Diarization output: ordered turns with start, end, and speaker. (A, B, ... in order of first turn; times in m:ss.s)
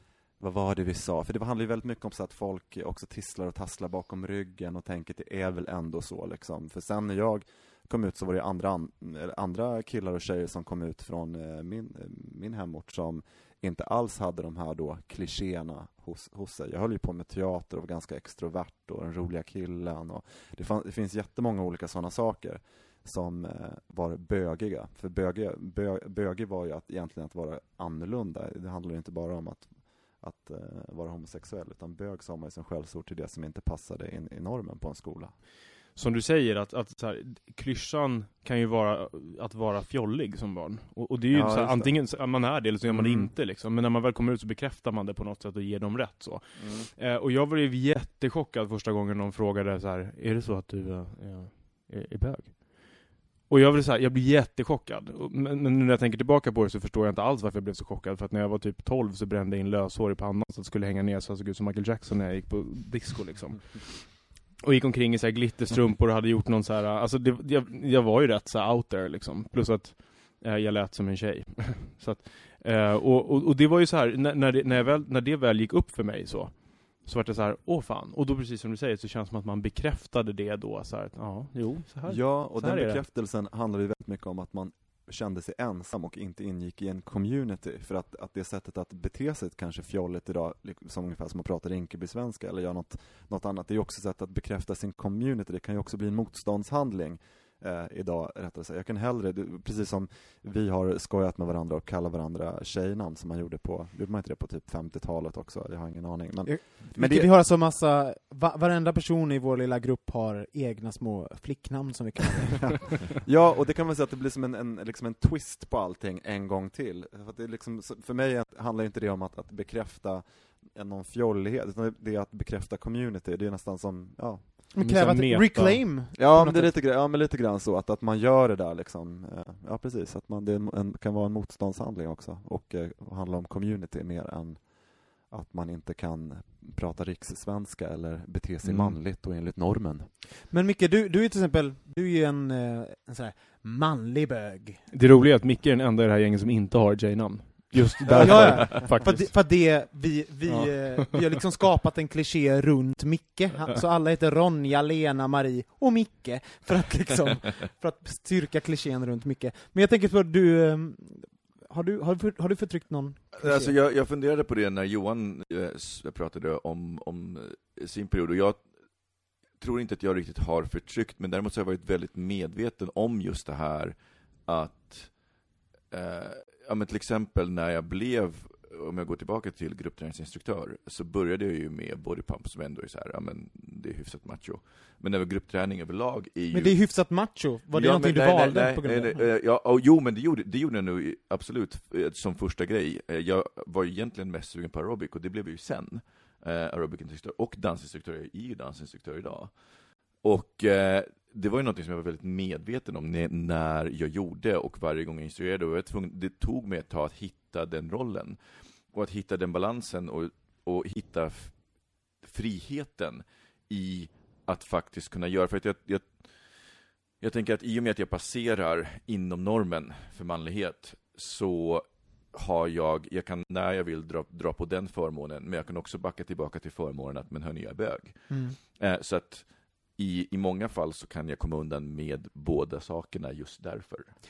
0:00.4-0:35.3 A
0:35.9-1:23.0 B
0:41.3-0:42.2 A
0:42.9-0:43.3 A
0:46.6-0:46.9 A
1:22.0-1:47.3 A
1:46.4-1:53.0 C
1:52.6-2:04.7 A
2:04.7-2:06.8 C
2:04.8-2:05.9 B
2:06.1-2:20.1 A
2:18.6-2:19.0 D
2:20.5-2:24.8 C
2:24.9-2:29.4 B
2:28.0-2:28.9 A
2:28.1-2:29.0 D
2:28.2-2:43.7 C
2:30.4-2:31.2 B
2:43.3-2:48.6 D
2:49.5-2:55.2 D
2:55.9-3:19.6 D
3:06.5-3:09.3 C
3:20.2-3:31.6 D
3:32.2-3:54.1 D
3:48.3-3:48.6 C